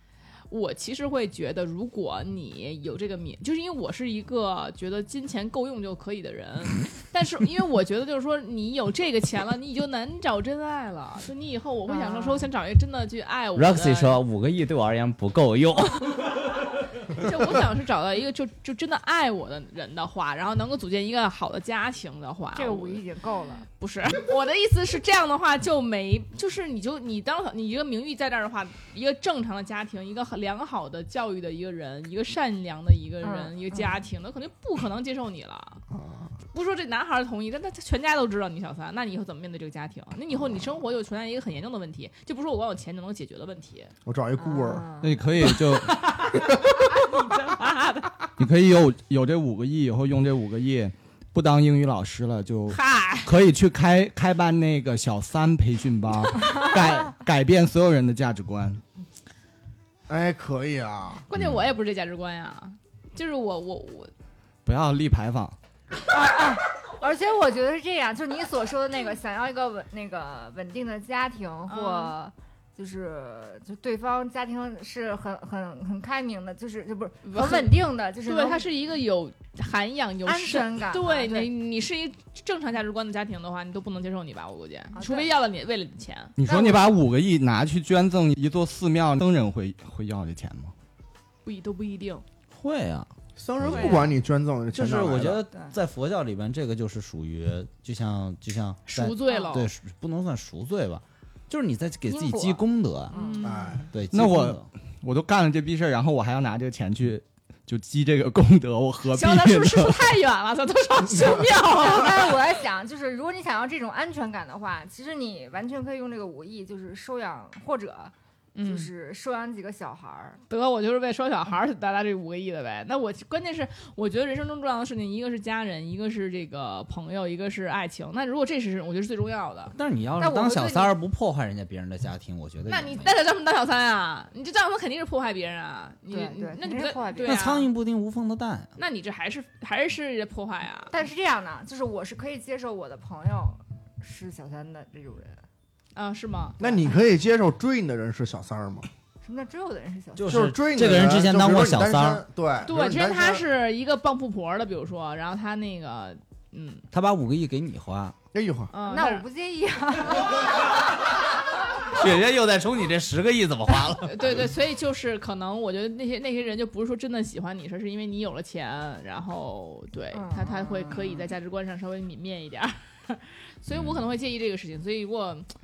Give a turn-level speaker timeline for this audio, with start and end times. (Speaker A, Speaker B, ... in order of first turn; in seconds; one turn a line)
Speaker A: 0.5-14.2
Speaker B: 11.9-12.5
Speaker C: 13.6-16.3
Speaker A: 17.1-23.0
Speaker B: 22.5-23.7
Speaker A: 23.8-35.8
Speaker B: 33.2-34.0
Speaker D: 35.9-36.3
Speaker A: 36.5-43.9
Speaker D: 44.0-44.9
Speaker B: 44.4-45.2
Speaker E: 45.0-46.0
Speaker A: 45.8-46.4
Speaker A: 47.0-48.2
Speaker E: 48.4-58.8
Speaker A: 52.7-53.3
Speaker D: 60.1-61.2
Speaker A: 61.3-64.1
Speaker E: 64.7-65.6
Speaker B: 66.1-78.7
Speaker A: 71.7-72.1
Speaker A: 77.2-86.4
Speaker B: 80.2-81.5
Speaker B: 84.9-85.3
Speaker E: 86.4-90.7
Speaker B: 86.5-86.9
Speaker A: 91.5-92.2
Speaker C: 92.5-94.1
Speaker D: 93.4-95.4
Speaker B: 93.7-94.1
Speaker C: 94.7-103.2
Speaker A: 98.9-99.7
Speaker B: 99.3-99.6
Speaker B: 102.1-103.7
Speaker A: 103.1-103.9
Speaker D: 103.4-103.9
Speaker C: 103.9-104.7
Speaker E: 104.1-110.1
Speaker A: 109.1-112.5
Speaker B: 111.6-120.4
Speaker A: 118.5-118.9
Speaker A: 120.5-129.7
Speaker C: 129.8-133.1
Speaker B: 130.2-130.9
Speaker A: 132.7-137.7
Speaker B: 136.1-137.4
Speaker C: 137.3-138.7
Speaker A: 138.8-140.9
Speaker B: 140.9-145.4
Speaker A: 145.9-146.6
Speaker B: 146.6-146.9
Speaker D: 146.6-148.9
Speaker B: 149.2-150.4
Speaker C: 150.2-152.2
Speaker D: 150.3-153.4
Speaker A: 152.7-156.8
Speaker C: 156.9-158.2
Speaker D: 158.3-158.7
Speaker A: 158.7-159.2
Speaker B: 158.9-160.8
Speaker C: 161.9-164.5
Speaker A: 164.0-175.5
Speaker B: 170.1-171.3
Speaker C: 173.7-174.0